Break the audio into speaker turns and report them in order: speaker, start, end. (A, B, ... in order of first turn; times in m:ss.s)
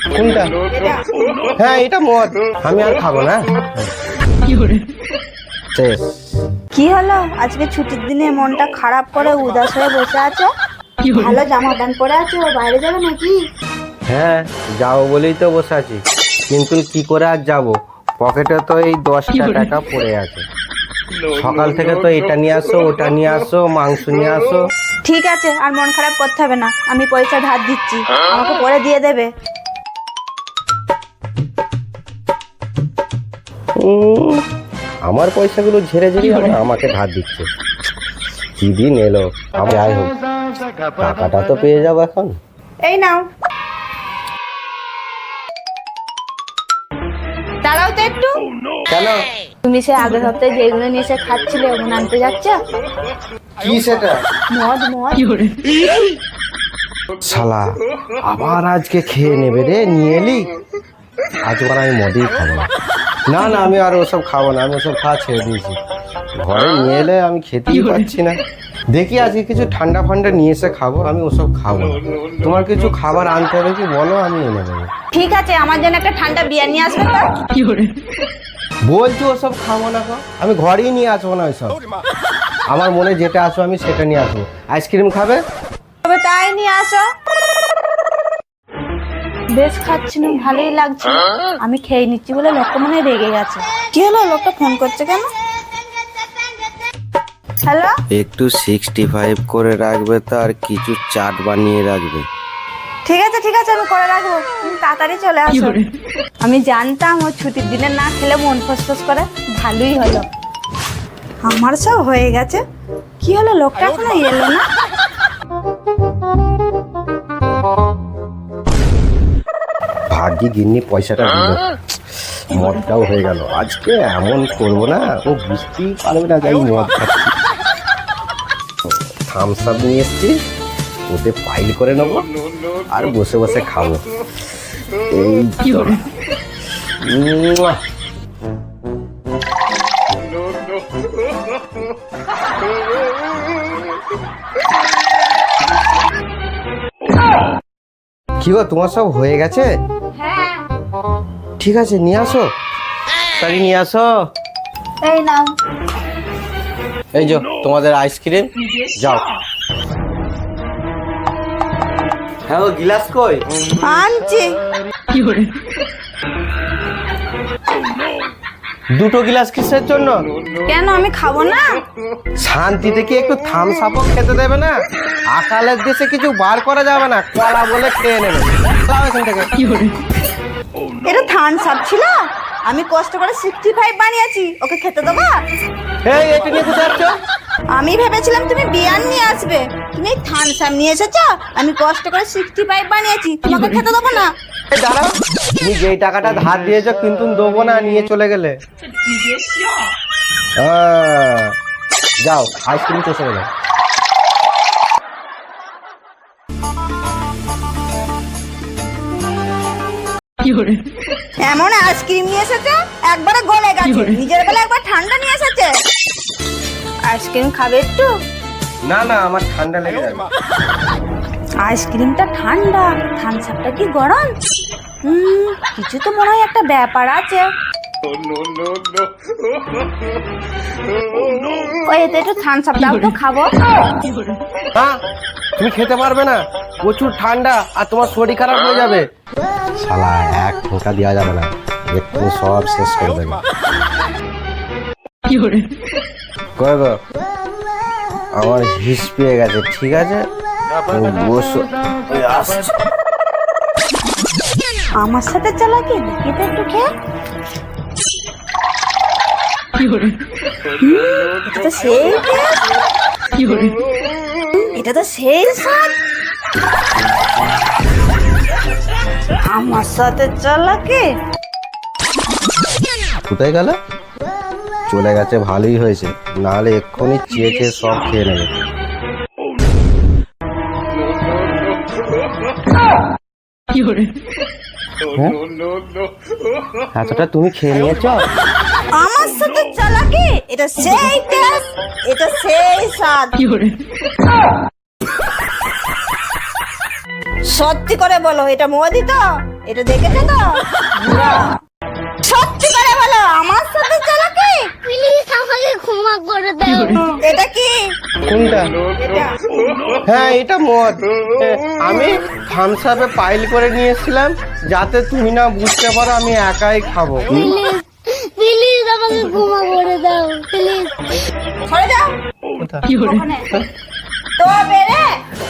0:00.1-0:00.5 A
0:00.6-0:01.0 B
0:01.6-0:03.9 A
0:05.7-0:06.3 A
0:06.7-0:10.5 B
0:11.1-0:13.4 B
0:14.1-0:20.4 A
0:21.3-0:24.7 A
0:25.0-0:29.3 B
0:33.8-0:34.4 A
0:35.0-0:37.4 A
0:38.6-0:40.1 A
0:41.0-0:42.4 A
0:42.8-0:43.2 B
0:47.6-0:48.4 B
0:48.9-0:49.2 A
0:49.6-0:52.6 B
0:53.6-0:54.2 A
0:54.5-0:55.4 B
0:57.2-1:00.4 A
1:01.4-1:02.7 A
1:03.3-1:05.8 A
1:06.4-1:08.4 A
1:08.9-1:14.9 A
1:15.1-1:17.4 B
1:18.9-1:21.8 A
1:22.7-1:25.4 A
1:26.0-1:27.0 B
1:29.5-1:35.3 B
1:37.6-1:37.9 B
1:38.1-1:42.3 A
1:43.0-1:45.8 B
1:46.4-1:50.3 B
1:51.4-1:52.6 B
1:53.2-1:54.6 B
2:00.1-2:01.6 A
2:02.1-2:07.3 A
2:08.9-2:10.4 A
2:11.1-2:12.3 A
2:12.9-2:14.0 A
2:15.1-2:16.0 A
2:17.0-2:17.8 A
2:28.4-2:29.7 A
2:30.2-2:30.6 B
2:31.6-2:32.5 A
2:33.4-2:34.2 A
2:35.0-2:35.5 B
2:37.1-2:39.2 A
2:42.5-2:43.4 A
2:43.8-2:44.5 B
2:49.0-2:50.2 A
2:50.6-2:51.8 B
2:52.4-2:54.8 A
2:55.3-2:59.5 A
3:01.0-3:02.1 B
3:02.7-3:05.3 B
3:06.0-3:07.2 A
3:07.7-3:14.3 B
3:14.7-3:18.6 A
3:20.6-3:21.5 A
3:22.2-3:23.5 A
3:31.4-3:35.7 B
3:37.1-3:38.1 B
3:38.8-3:40.3 A
3:41.6-3:44.3 B
3:45.0-3:47.5 B
3:51.8-3:53.5 B
3:55.6-3:59.0 A
3:59.8-4:03.4 A
4:06.6-4:06.9 A
4:08.4-4:10.2 A
4:10.9-4:12.6 A
4:15.0-4:16.9 B
4:20.8-4:22.6 B
4:24.7-4:25.9 B
4:29.4-4:31.1 B
4:33.3-4:33.8 A
4:34.9-4:38.5 A
4:45.1-4:45.4 A
4:46.9-4:48.2 A
4:48.9-4:53.3 B
4:57.5-5:01.5 B
5:02.2-5:04.7 B
5:04.8-5:07.1 C
5:07.2-5:07.7 B
5:08.2-5:08.8 A
5:09.0-5:09.3 B
5:10.0-5:17.5 A
5:17.3-5:21.2 C
5:21.6-5:22.1 B
5:22.6-5:22.9 A
5:23.0-5:23.5 B
5:24.4-5:25.2 B